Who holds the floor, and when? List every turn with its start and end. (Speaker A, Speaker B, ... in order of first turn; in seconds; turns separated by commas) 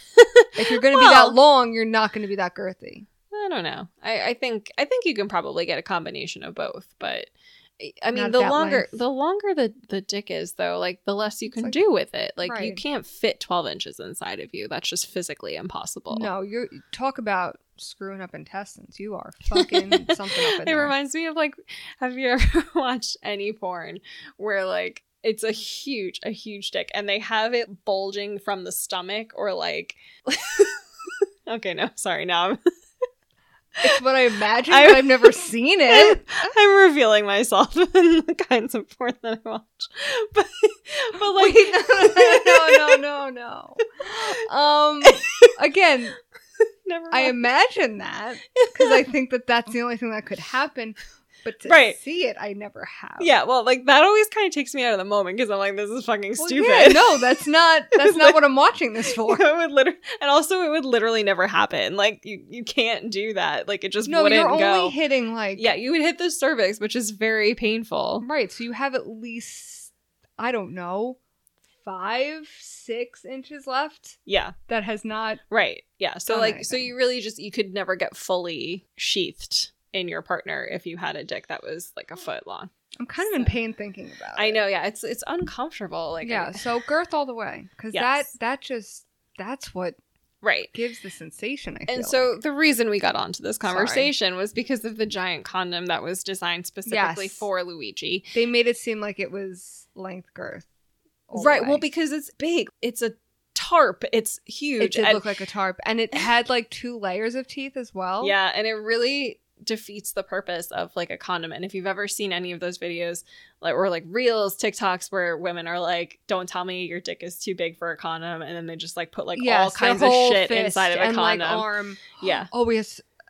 Speaker A: 0.2-1.4, Speaker B: 0.6-3.1, Speaker A: 3.3-16.3, Speaker B: 8.1-9.0, Speaker B: 11.5-11.8, Speaker B: 12.4-12.8, Speaker B: 16.1-20.9, Speaker A: 19.6-32.6, Speaker B: 33.8-36.5, Speaker A: 34.7-43.0, Speaker B: 41.1-46.2, Speaker A: 45.0-45.5, Speaker A: 46.9-47.4, Speaker B: 47.1-53.3, Speaker A: 48.6-49.0, Speaker A: 51.6-52.0, Speaker A: 53.2-57.3, Speaker B: 56.4-59.4, Speaker A: 58.0-58.4, Speaker A: 59.1-65.0, Speaker B: 64.1-65.7, Speaker A: 65.6-68.3, Speaker B: 68.2-71.2, Speaker B: 71.8-75.4, Speaker A: 74.3-74.5, Speaker A: 75.5-83.5, Speaker B: 76.3-76.9, Speaker B: 83.0-84.6, Speaker A: 84.4-86.7, Speaker B: 86.2-90.0, Speaker A: 87.9-88.3, Speaker A: 90.4-90.7, Speaker B: 90.7-92.4, Speaker A: 91.9-98.3, Speaker B: 93.6-94.1, Speaker B: 96.9-97.5, Speaker B: 98.3-100.7, Speaker B: 101.3-101.8, Speaker A: 101.3-105.2, Speaker B: 104.8-108.3, Speaker A: 108.2-121.7, Speaker B: 119.4-123.0, Speaker A: 122.2-122.5